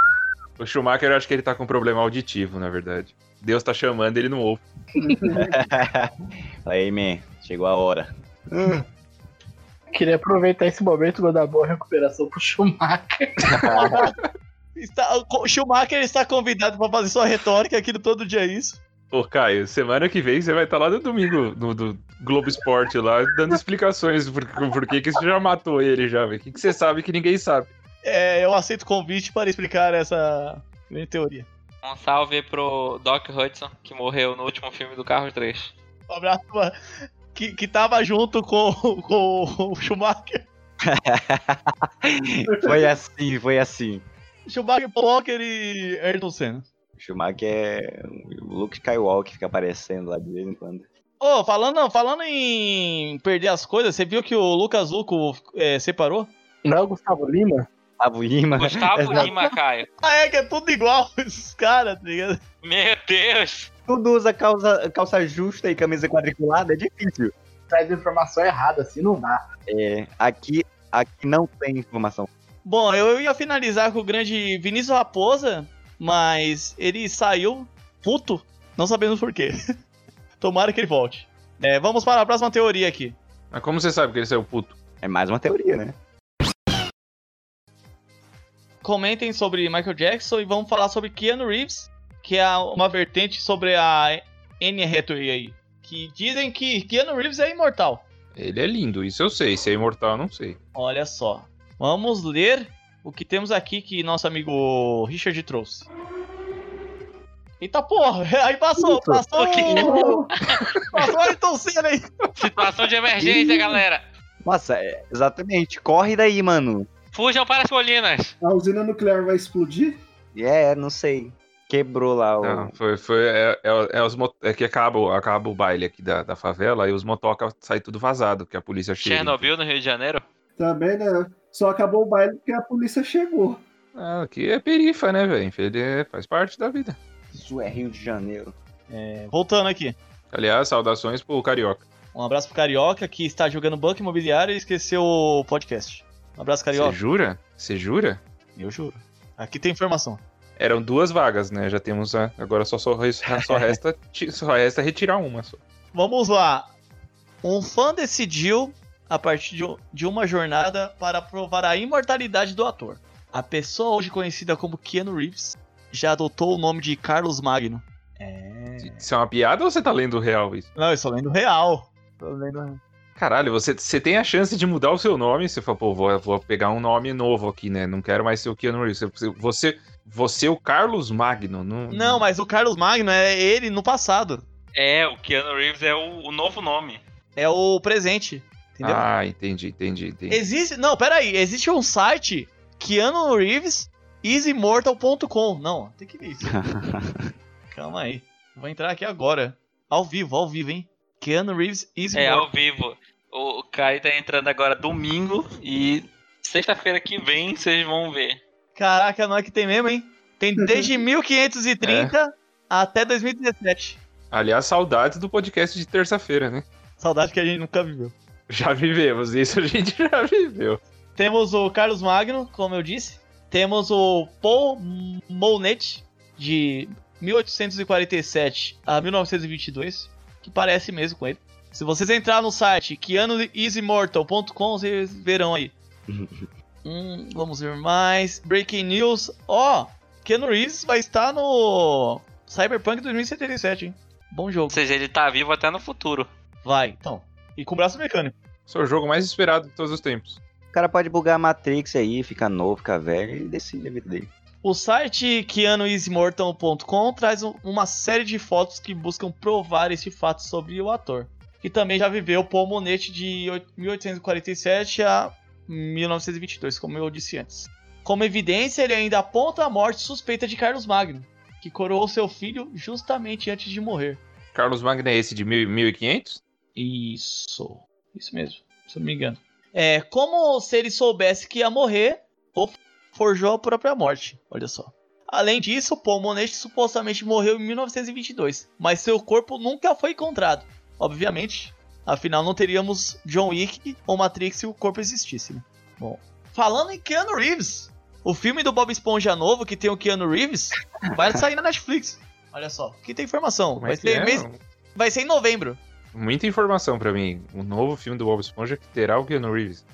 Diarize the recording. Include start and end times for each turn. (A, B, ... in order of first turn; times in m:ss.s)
0:00.6-0:04.6 A
0:05.0-0:05.7 B
0:05.3-0:06.1 C
0:06.6-0:08.1 C
0:08.5-0:08.9 B
0:09.9-0:13.7 D
0:13.5-0:14.0 C
0:13.7-0:14.2 E
0:14.8-0:18.8 E
0:19.1-0:27.7 A
0:28.0-0:31.5 E
0:31.8-0:35.8 F
0:36.1-0:36.8 E
0:37.3-0:40.4 E
0:40.8-0:44.1 C
0:42.5-0:42.9 B
0:44.5-0:46.7 E
0:47.0-0:50.9 C
0:51.2-0:56.3 E
0:56.6-0:57.7 D
0:58.0-0:59.3 C
0:58.6-0:59.9 F
1:00.0-1:02.4 E
1:02.6-1:03.7 F
1:03.9-1:07.3 C
1:07.7-1:09.4 D
1:09.7-1:12.3 C
1:12.6-1:19.6 E
1:20.4-1:23.2 E
1:23.5-1:24.8 A
1:25.0-1:26.0 C
1:28.8-1:38.1 E
1:38.4-1:40.6 A
1:40.8-1:45.9 E
1:47.6-1:50.2 E
1:49.3-1:50.7 F
1:49.7-1:50.3 B
1:50.9-1:52.1 E
1:52.4-1:54.0 F
1:53.2-1:53.7 B
1:54.4-1:56.9 C
1:57.1-1:58.4 F
1:58.4-2:00.0 B
2:00.3-2:02.7 C
2:02.4-2:09.5 A
2:09.0-2:10.3 F
2:10.6-2:13.6 B
2:14.0-2:17.0 A
2:17.3-2:18.6 C
2:18.9-2:20.0 E
2:20.3-2:21.8 A
2:22.1-2:27.0 E
2:26.7-2:28.2 A
2:28.6-2:30.2 E
2:30.6-2:35.6 A
2:33.3-2:33.7 C
2:35.9-2:36.7 E
2:37.4-2:49.1 E
2:48.8-2:50.7 A
2:50.8-2:52.8 E
2:53.2-3:02.2 A
3:01.9-3:04.4 E
3:04.8-3:07.0 F
3:07.4-3:09.1 E
3:08.8-3:10.4 A
3:10.3-3:16.6 E
3:16.4-3:17.3 C
3:17.7-3:22.5 E
3:22.1-3:28.4 F
3:28.8-3:34.0 E
3:30.6-3:30.9 B
3:31.8-3:32.1 A
3:34.3-3:36.6 A
3:37.0-3:38.2 E
3:38.5-3:40.8 A
3:41.2-3:55.7 E
3:56.1-3:56.5 C
3:56.8-4:04.8 E
4:04.7-4:06.3 F
4:06.6-4:08.3 E
4:08.7-4:10.4 A
4:10.7-4:14.3 C
4:14.6-4:34.2 E
4:34.5-4:36.4 A
4:36.8-5:05.8 E
5:01.0-5:01.4 C
5:03.8-5:04.6 A
5:06.1-5:09.8 A